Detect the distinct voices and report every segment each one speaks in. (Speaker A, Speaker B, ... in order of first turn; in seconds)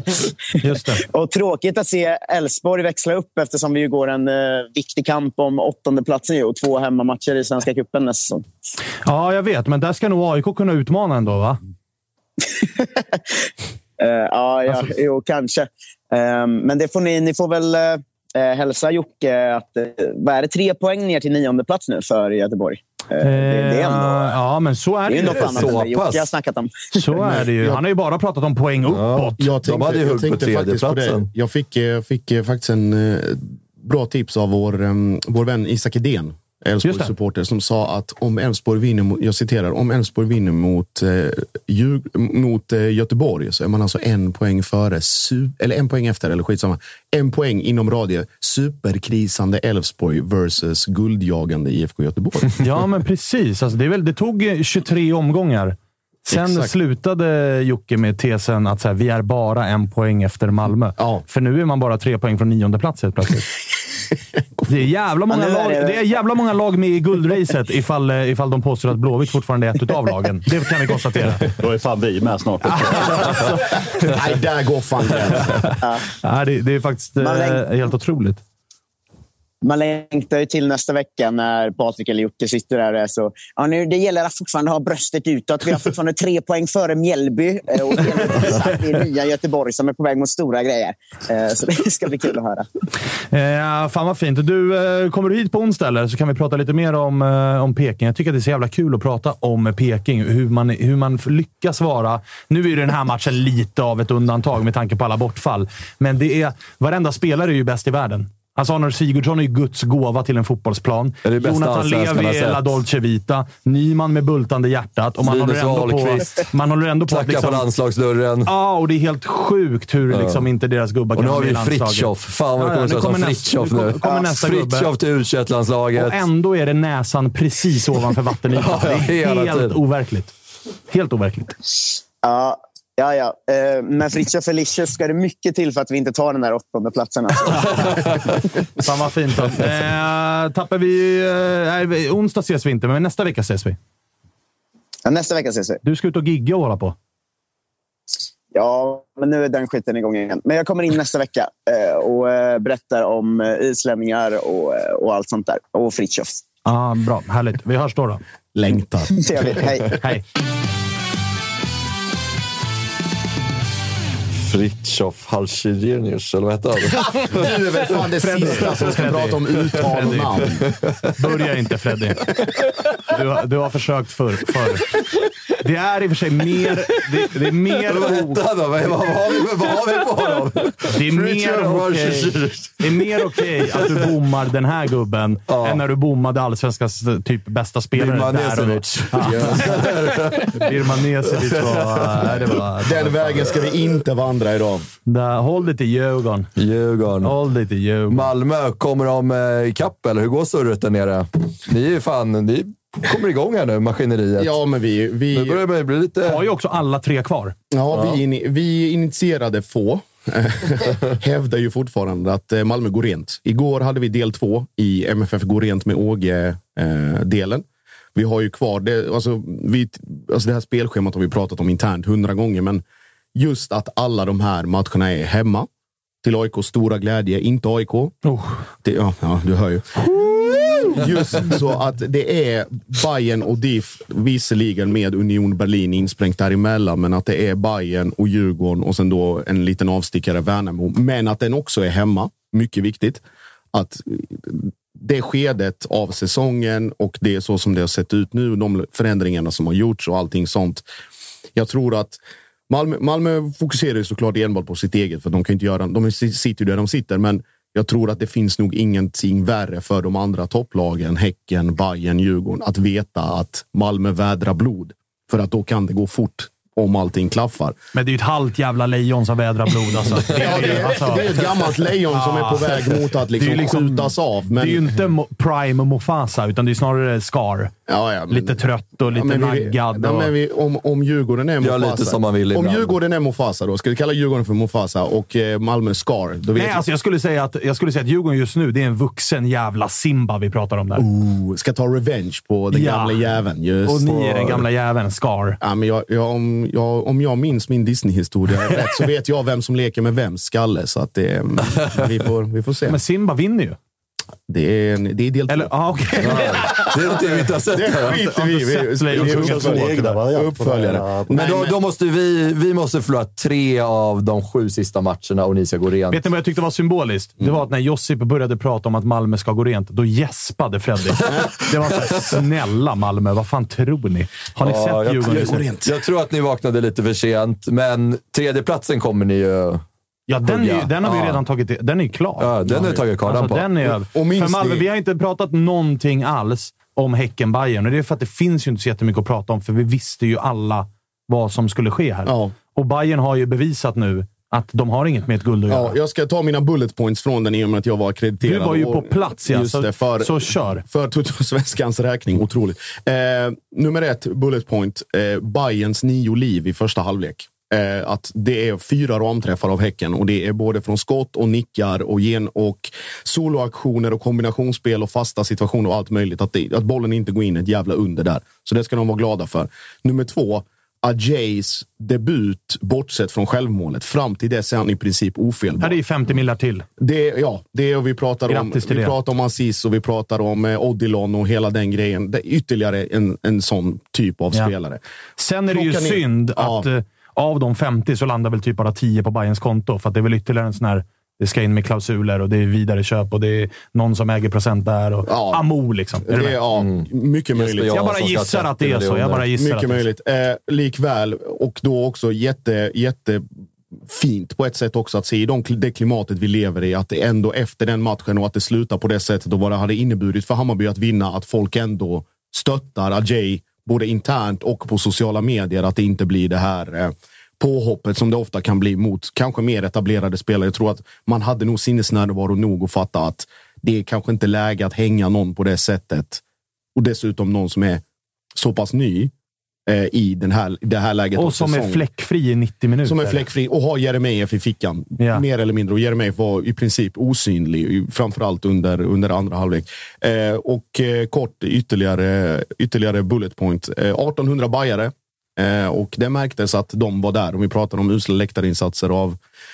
Speaker A: 0.6-1.0, 9.1-11.6, 23.2-25.8, 26.9-29.4, 36.8-37.1, 52.6-63.5, 64.7-71.5, 72.7-74.0, 75.5-78.4, 93.3-117.7, 118.4-124.9, 126.0-130.3, 130.9-131.6, 138.8-143.8, 145.8-146.9, 156.7-158.2, 168.2-170.5, 171.2-172.2, 173.1-174.9, 175.6-178.4, 180.9-193.3, 195.1-196.5, 197.2-198.3, 206.2-207.5, 228.2-228.6, 230.1-231.0, 267.9-271.3, 272.1-277.7, 278.3-280.3, 286.6-291.1, 292.7-293.2, 293.9-295.6, 302.9-303.8, 305.5-307.4, 307.9-310.0, 316.1-325.6, 330.3-345.9, 348.4-350.8, 375.8-376.9, 378.5-379.1, 385.4-396.6, 397.9-400.0, 431.4-433.4, 435.2-435.4
Speaker B: 1.0-8.4, 14.0-24.3, 25.1-27.1, 65.3-66.1, 77.2-77.6, 79.6-92.7, 132.2-138.1, 145.1-145.8, 148.5-156.4, 159.1-160.0
Speaker C: 25.3-26.3, 28.9-31.3, 111.2-112.8, 115.2-116.5, 117.1-118.5, 120.1-120.5, 121.1-126.2, 128.5-129.8, 164.4-167.4, 170.7-171.1, 177.8-184.1, 185.5-185.8, 187.9-192.7, 196.6-197.3, 198.1-204.6, 205.3-206.4, 281.6-282.9, 306.2-308.1, 311.3-316.2, 321.2-322.3, 324.6-329.8, 330.4-331.4, 332.4-333.7, 396.8-399.5
Speaker D: 27.1-27.8, 29.4-52.5, 56.3-56.7, 61.0-61.2, 74.0-75.8, 158.5-159.7, 167.2-170.7, 192.8-194.9, 204.4-205.6, 207.7-222.8, 223.3-225.7, 226.2-228.2, 228.8-250.8, 251.6-267.7, 270.3-274.9, 277.9-286.8, 290.9-294.7, 295.6-303.0, 304.5-306.9, 307.6-311.8, 325.2-326.0, 332.6-333.0, 333.8-334.9, 342.2-342.6, 345.7-376.0, 377.0-385.0, 385.7-386.9, 395.2-397.9, 399.5-403.5, 404.1-426.4, 426.9-428.0, 428.6-429.3, 429.9-432.1, 433.0-449.4
Speaker E: 71.5-73.5, 309.1-311.5